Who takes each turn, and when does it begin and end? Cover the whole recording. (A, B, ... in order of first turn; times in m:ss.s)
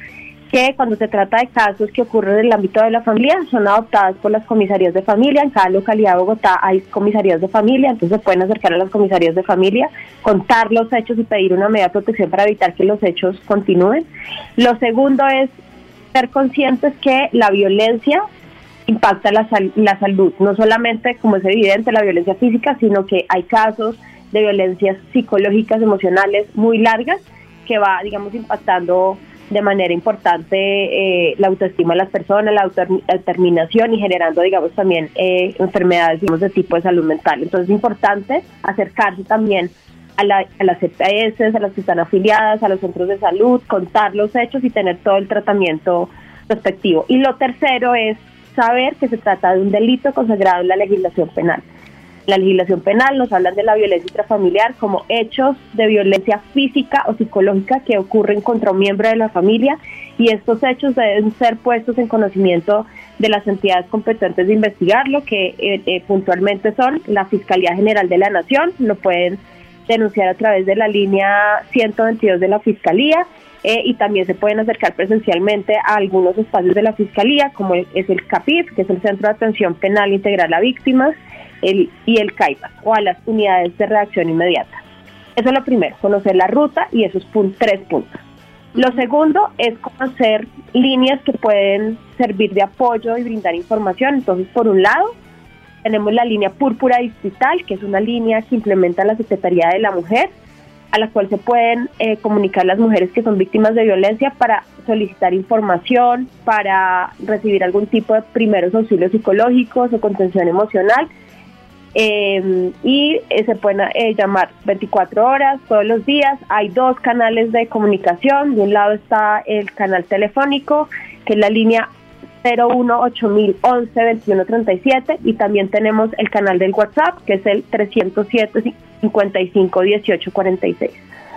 0:00.5-0:14.1 A
0:14.6-0:15.5 A
0:16.1-0:18.2 A
0:18.9-0:51.6 A
0:52.3-1:24.8 A
1:25.4-1:28.1 A
1:28.8-1:35.1 A
1:35.8-1:40.3 A
1:40.9-1:51.1 A
1:51.9-2:01.9 A
2:02.4-2:11.0 A